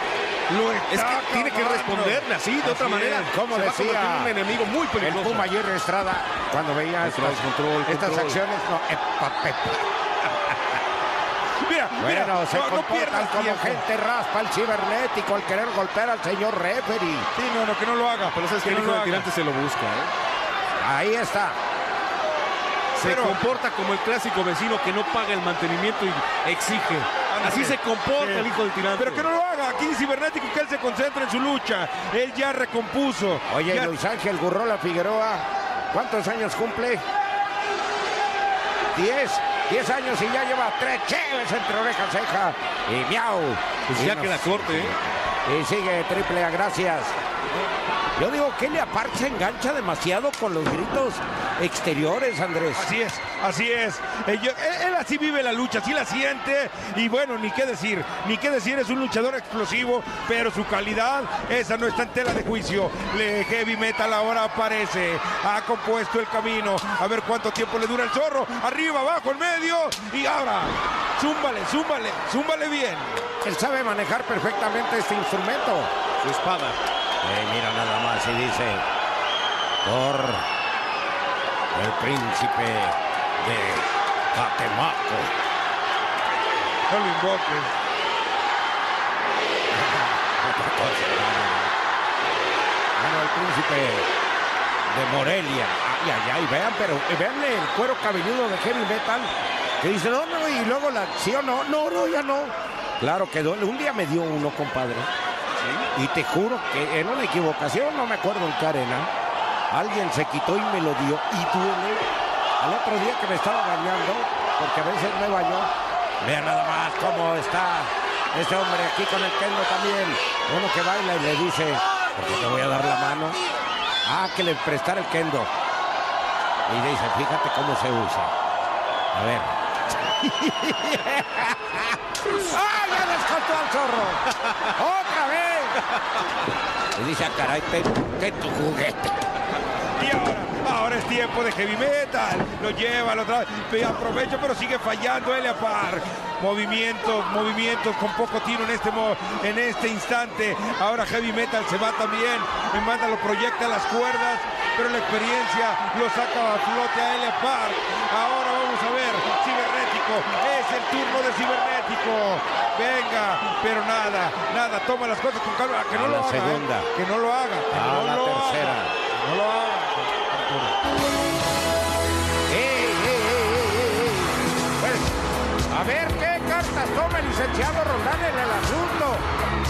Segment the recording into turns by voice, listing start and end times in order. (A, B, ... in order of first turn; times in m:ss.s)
0:00.5-0:03.3 A
0:00.9-0:05.5 B
0:03.2-0:04.4 C
0:05.0-0:09.8 C
0:07.0-0:08.4 B
0:11.6-0:13.8 A
0:12.0-0:17.3 C
0:17.3-0:19.3 A
0:18.3-0:20.1 B
0:20.8-0:21.6 C
0:23.0-0:29.3 B
0:23.0-0:23.4 A
0:27.3-0:28.5 A
0:29.0-0:33.9 A
0:33.5-0:37.0 C
0:38.9-0:47.2 C
0:43.9-0:45.0 B
0:48.2-0:52.9 C
0:52.8-1:13.2 A
1:13.4-1:15.9 C
1:16.2-1:16.8 B
1:17.2-1:18.8 C
1:19.8-1:20.4 C
1:21.7-1:25.4 C
1:26.9-1:27.7 A
1:29.7-1:31.7 C
1:33.0-1:34.1 C
1:34.9-1:45.1 C
1:45.9-1:49.1 C
1:49.7-1:52.1 C
1:52.6-1:55.7 C
1:56.2-2:03.4 C
2:04.0-2:05.5 C
2:06.7-2:08.3 C
2:09.1-2:09.5 C
2:10.1-2:14.2 C
2:14.4-2:14.7 B
2:14.7-2:15.8 C
2:17.0-2:19.3 C
2:20.0-2:50.8 A
2:45.9-2:46.9 C
2:47.7-2:48.9 C
2:52.5-2:55.2 C
2:55.7-2:59.3 C